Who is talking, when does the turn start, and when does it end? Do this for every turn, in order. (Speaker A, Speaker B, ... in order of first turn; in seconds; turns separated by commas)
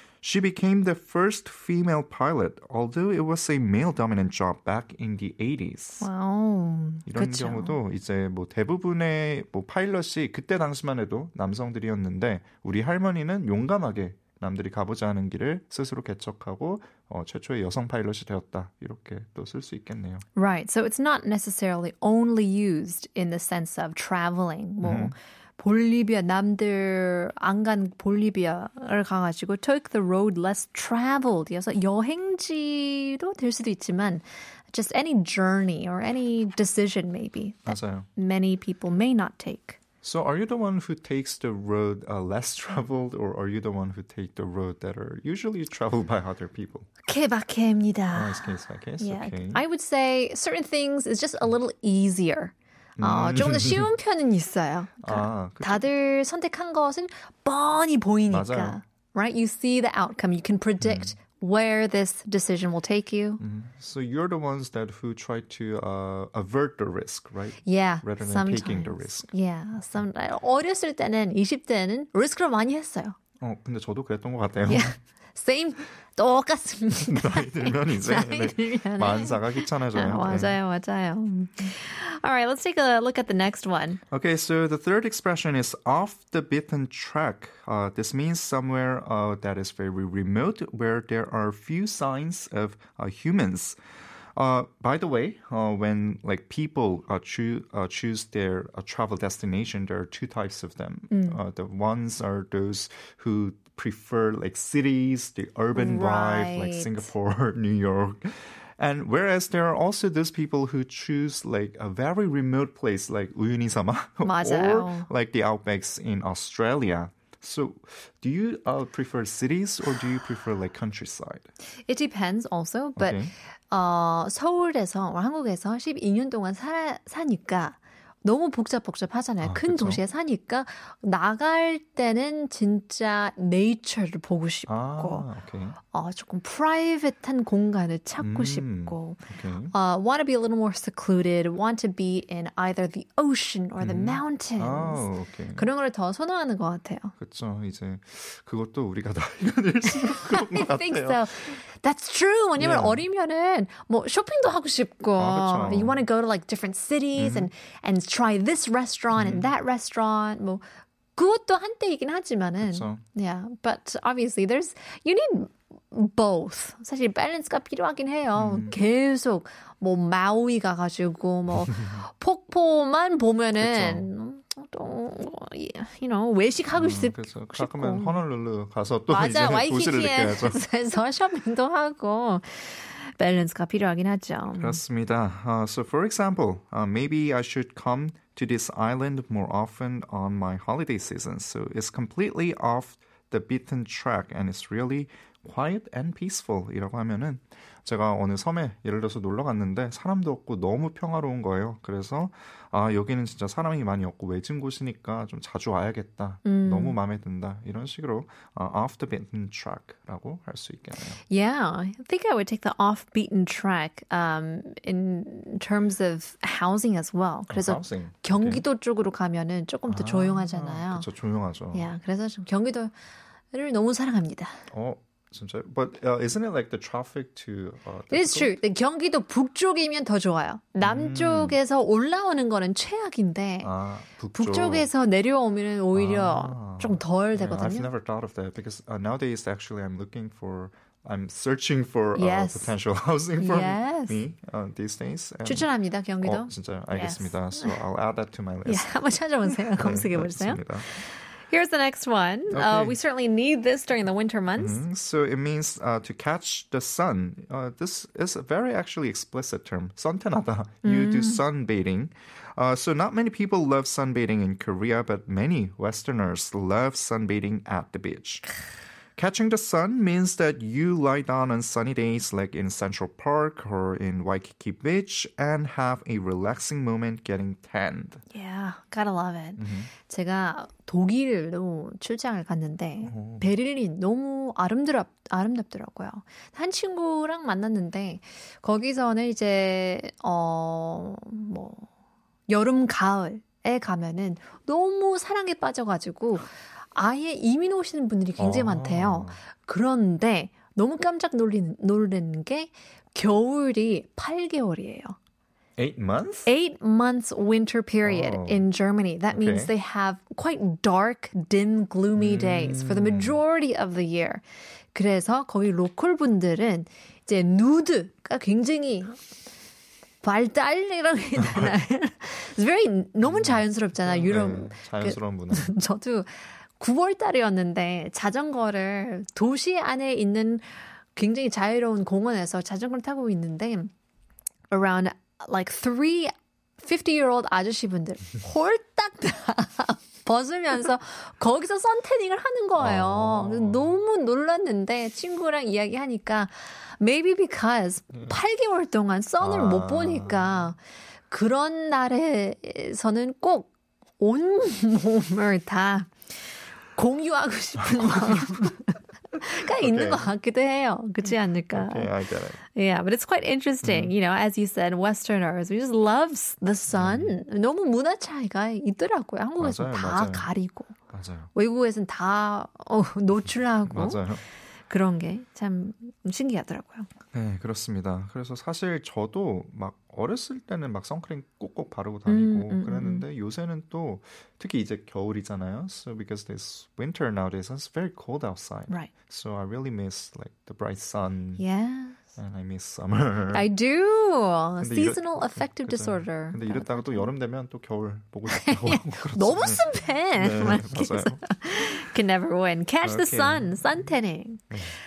Speaker A: 0.2-6.0, Speaker B: 6.0-7.8, Speaker A: 7.0-20.2, Speaker B: 20.4-39.8, Speaker A: 24.8-25.1, Speaker A: 37.6-38.1, Speaker A: 40.0-46.9, Speaker B: 47.0-63.4, Speaker A: 48.1-49.6, Speaker A: 53.0-53.9, Speaker A: 55.0-55.9, Speaker A: 58.3-58.8, Speaker A: 60.8-61.1, Speaker A: 63.4-69.3, Speaker B: 67.6-73.2, Speaker A: 73.4-74.9, Speaker B: 74.7-84.0, Speaker A: 77.0-80.6, Speaker A: 84.1-93.8, Speaker A: 94.3-121.5, Speaker B: 101.1-101.4, Speaker B: 105.7-107.1, Speaker B: 114.2-115.1, Speaker B: 121.9-135.2, Speaker A: 123.0-123.3, Speaker A: 129.4-130.0, Speaker A: 134.7-135.8, Speaker B: 135.9-147.1, Speaker A: 138.2-139.7, Speaker A: 143.8-145.7, Speaker A: 147.2-151.2, Speaker B: 149.9-160.6, Speaker A: 152.6-153.0, Speaker A: 155.2-156.0, Speaker A: 157.2-157.5, Speaker A: 159.1-159.5, Speaker B: 161.1-178.2, Speaker A: 162.6-163.0, Speaker A: 168.3-168.8, Speaker A: 171.5-172.0, Speaker A: 173.6-174.1, Speaker A: 176.7-180.6, Speaker B: 179.1-184.8, Speaker A: 184.6-211.2, Speaker B: 206.4-206.9, Speaker B: 211.3-221.1, Speaker A: 217.5-218.6, Speaker A: 219.9-221.9, Speaker B: 221.7-222.9, Speaker B: 223.5-224.6, Speaker A: 224.7-228.5, Speaker B: 228.1-233.7, Speaker A: 230.8-231.6, Speaker A: 233.6-234.9, Speaker B: 234.3-237.9, Speaker A: 235.9-245.7, Speaker B: 242.1-242.7, Speaker B: 243.4-244.2, Speaker B: 245.4-247.8, Speaker A: 246.2-248.9, Speaker B: 248.7-250.6, Speaker A: 249.5-250.9, Speaker B: 251.5-254.8, Speaker A: 252.5-253.0, Speaker A: 254.6-268.4, Speaker B: 260.8-261.4, Speaker A: 269.1-278.2, Speaker B: 278.3-291.9, Speaker A: 279.6-279.9, Speaker A: 283.1-283.5, Speaker B: 292.5-305.2, Speaker A: 298.4-299.4, Speaker A: 305.8-306.5, Speaker B: 306.4-314.4, Speaker A: 308.0-308.7, Speaker A: 309.3-309.7, Speaker A: 312.1-313.4, Speaker B: 314.9-319.2, Speaker B: 320.2-330.6, Speaker A: 321.4-321.8, Speaker A: 323.2-325.7, Speaker B: 331.1-333.9, Speaker B: 334.7-350.8, Speaker A: 342.8-343.9, Speaker A: 349.4-350.7, Speaker B: 351.3-356.1, Speaker B: 356.9-362.1, Speaker A: 357.9-358.6, Speaker A: 359.7-360.3, Speaker A: 361.7-362.6, Speaker B: 362.6-371.0, Speaker A: 363.8-364.1, Speaker A: 366.9-367.3, Speaker A: 369.6-370.5, Speaker A: 371.1-371.5, Speaker B: 371.5-374.2, Speaker A: 373.9-374.4, Speaker B: 374.9-377.1, Speaker A: 377.3-391.6, Speaker B: 382.3-383.2, Speaker B: 391.6-392.2, Speaker A: 392.4-393.7, Speaker B: 393.5-397.3, Speaker A: 394.8-401.4, Speaker B: 398.5-404.7, Speaker A: 403.0-403.9, Speaker A: 404.7-404.9